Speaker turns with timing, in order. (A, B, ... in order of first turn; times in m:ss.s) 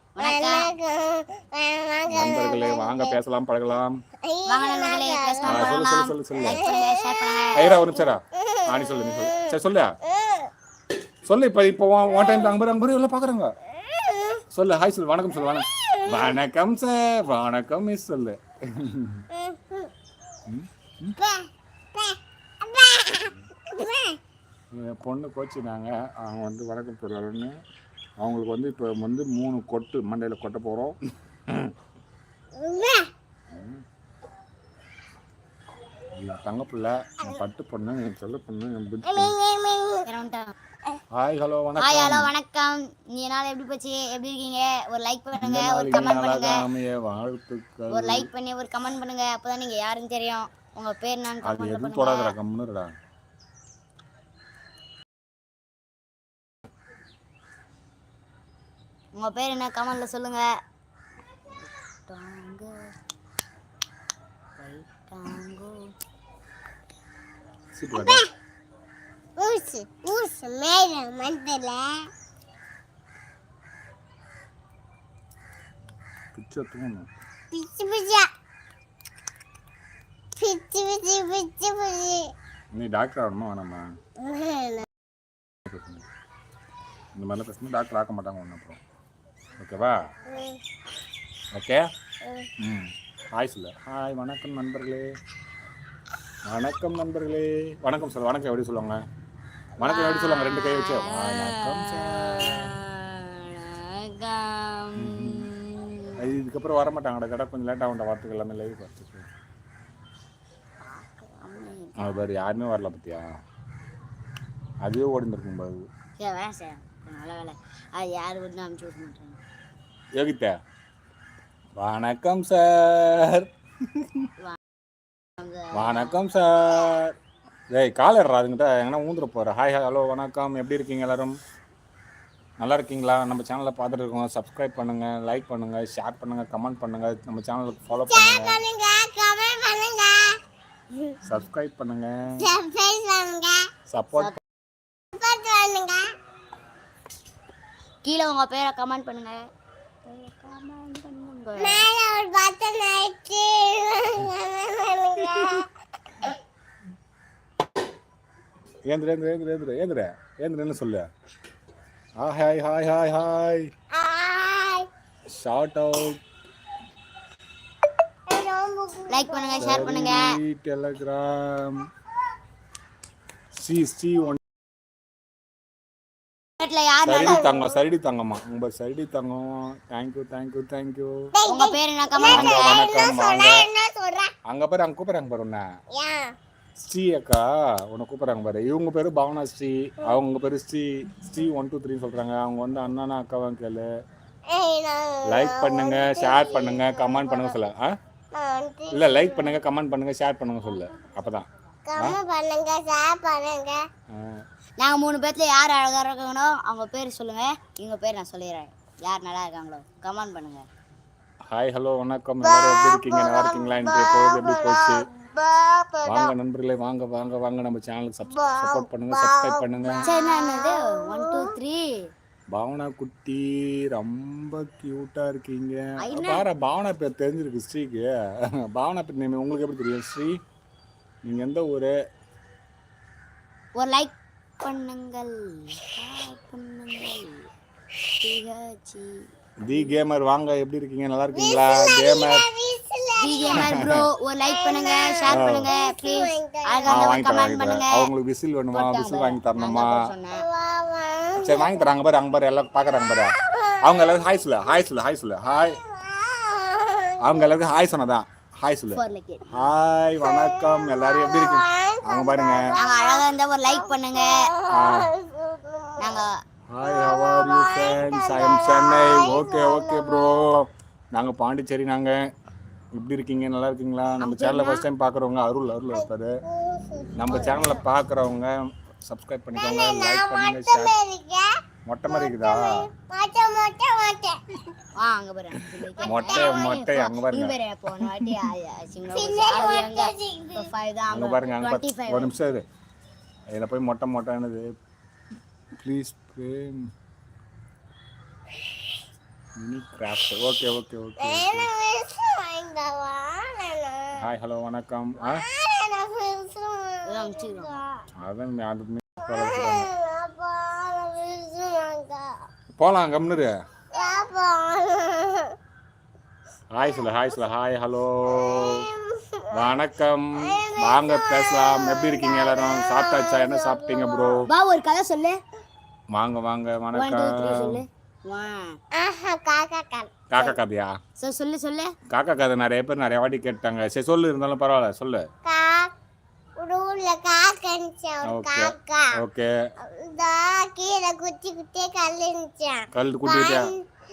0:00.2-0:00.7 A
0:00.2-0:03.0 B
0:02.1-0:04.0 C
0:04.2-0:05.9 B
0:04.5-0:07.8 A
0:05.4-0:06.6 C
0:06.4-0:07.7 B
0:07.5-0:10.0 C
0:11.2-0:13.5 C
0:14.5-0:19.3 C
0:20.4-0:21.2 C
0:21.2-0:24.2 B
0:24.7-0:27.5 C
0:28.2-0:31.0 C
0:31.5-0:31.7 C
0:32.6-0:33.1 B
0:33.5-0:33.8 C
0:36.1-0:39.4 C
0:39.2-0:40.1 B
0:40.0-0:40.5 A
0:41.2-0:42.3 C
0:41.8-0:46.6 A
0:45.3-0:48.3 C
0:47.9-0:52.3 A
0:51.4-0:52.9 C
0:59.1-1:00.4 A
1:02.1-1:02.9 A
1:04.6-1:05.9 A
1:07.7-1:08.2 C
1:07.9-1:08.3 B
1:09.4-1:12.1 B
1:16.3-1:17.1 C
1:17.5-1:18.3 B
1:20.4-1:22.3 B
1:22.7-1:23.8 C
1:24.2-1:24.9 B
1:25.6-1:26.0 C
1:27.1-1:28.8 C
1:29.6-1:30.0 C
1:31.5-1:31.8 C
1:32.6-1:35.1 C
1:36.4-1:39.0 C
1:39.8-1:42.7 C
1:39.8-1:46.2 A
1:45.0-1:45.5 C
1:46.2-1:49.3 C
1:50.8-1:52.2 A
1:52.0-1:53.3 C
1:54.8-1:55.9 C
1:56.2-1:59.4 A
2:00.2-2:00.5 C
2:01.8-2:04.3 C
2:05.4-2:06.2 A
2:05.7-2:07.1 C
2:07.7-2:11.4 C
2:12.6-2:18.6 C
2:18.1-2:20.4 B
2:21.2-2:22.5 C
2:22.4-2:23.7 B
2:23.9-2:24.4 C
2:25.1-2:26.1 B
2:28.0-2:29.4 A
2:30.1-2:31.9 A
2:31.6-2:35.7 B
2:38.8-2:41.0 C
2:42.2-2:43.7 C
2:43.9-2:44.9 B
2:45.3-2:46.2 C
2:48.3-2:50.1 B
2:49.1-2:50.3 A
2:49.6-2:51.8 C
2:53.6-2:54.4 C
2:56.6-2:57.4 A
2:57.0-3:01.2 C
2:57.3-2:57.6 B
3:01.3-3:04.3 B
3:01.4-3:02.8 A
3:02.2-3:03.7 C
3:04.5-3:05.6 C
3:05.9-3:06.3 B
3:06.8-3:13.9 C
3:14.5-3:17.5 B
3:15.3-3:17.9 C
3:18.3-3:19.5 B
3:18.9-3:21.4 C
3:21.9-3:23.8 B
3:24.1-3:24.4 C
3:24.8-3:30.6 A
3:31.5-3:35.0 C
3:32.5-3:36.3 B
3:36.0-3:40.1 C
3:38.3-3:41.6 B
3:40.0-3:41.9 A
3:42.5-3:48.1 C
3:46.0-3:46.4 A
3:48.7-3:50.4 C
3:51.2-3:51.9 C
3:53.8-3:57.5 A
3:58.2-3:59.2 A
3:59.6-4:02.5 C
4:01.3-4:07.3 B
4:03.2-4:08.1 A
4:03.5-4:04.0 C
4:05.3-4:05.7 C
4:06.9-4:10.0 C
4:08.7-4:10.4 A
4:10.3-4:11.7 B
4:11.4-4:15.8 C
4:16.1-4:17.1 B
4:17.2-4:22.7 C
4:18.9-4:19.7 A
4:21.0-4:26.2 B
4:22.7-4:24.4 A
4:24.7-4:25.1 C
4:26.0-4:26.3 A
4:26.7-4:32.2 C
4:26.8-4:30.3 B
4:32.9-4:36.3 C
4:34.2-4:34.8 A
4:36.5-4:37.6 B
4:37.2-4:38.6 C
4:39.1-4:41.0 C
4:39.6-4:41.6 B
4:41.9-4:42.8 C
4:42.1-4:44.4 B
4:45.0-4:52.3 A
4:46.0-4:47.6 C
4:46.1-4:46.8 B
4:49.0-4:50.7 B
4:51.1-4:52.6 C
4:53.5-4:54.7 C
4:55.7-4:56.8 C
4:59.6-5:01.7 C
5:01.2-5:04.2 B
5:04.2-5:05.4 C
5:05.5-5:07.8 B
5:07.0-5:07.8 A
5:08.2-5:09.9 C
5:09.4-5:12.4 B
5:12.8-5:13.5 C
5:13.9-5:15.5 B
5:16.7-5:18.9 C
5:18.7-5:19.4 B
5:19.5-5:24.5 C
5:20.5-5:24.3 B
5:24.4-5:25.4 A
5:26.1-5:27.8 C
5:26.9-5:28.8 A
5:28.9-5:30.6 B
5:30.3-5:30.9 C
5:31.2-5:31.9 A
5:32.1-5:35.2 C
5:35.4-5:35.9 B
5:36.6-5:39.2 B
5:38.2-5:39.5 C
5:39.8-5:43.8 B
5:42.9-5:43.7 C